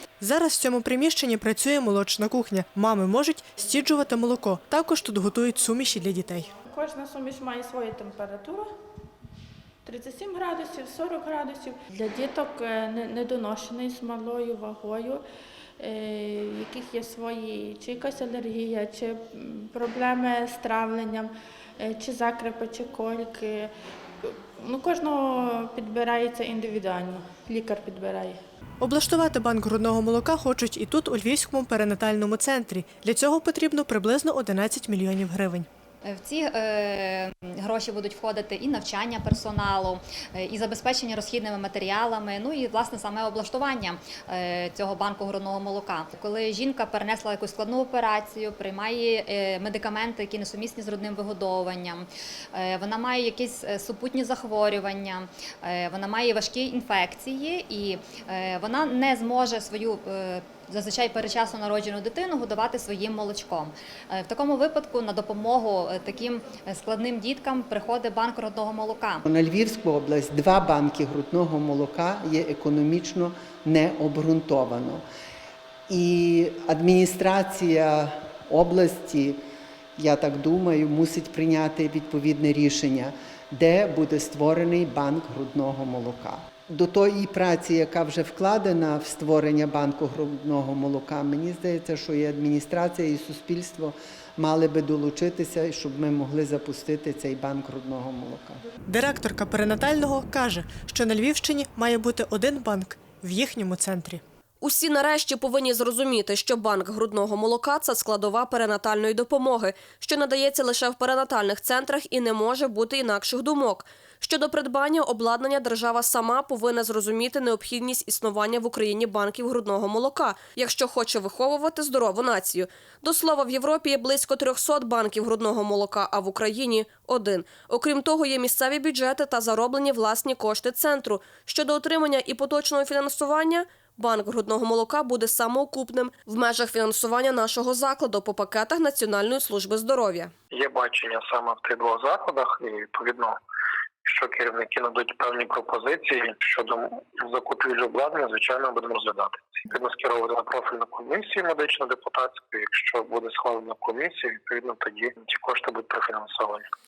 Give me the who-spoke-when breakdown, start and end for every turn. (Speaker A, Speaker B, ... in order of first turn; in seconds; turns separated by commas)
Speaker A: 0.2-6.5, Speaker B: 6.7-8.7, Speaker B: 9.8-15.2, Speaker B: 15.8-28.4, Speaker A: 28.8-35.7, Speaker C: 36.0-69.2, Speaker D: 69.2-75.0, Speaker D: 75.9-79.4, Speaker D: 80.0-98.6, Speaker A: 98.9-104.2, Speaker E: 104.6-140.3, Speaker F: 140.5-143.4, Speaker F: 144.0-156.7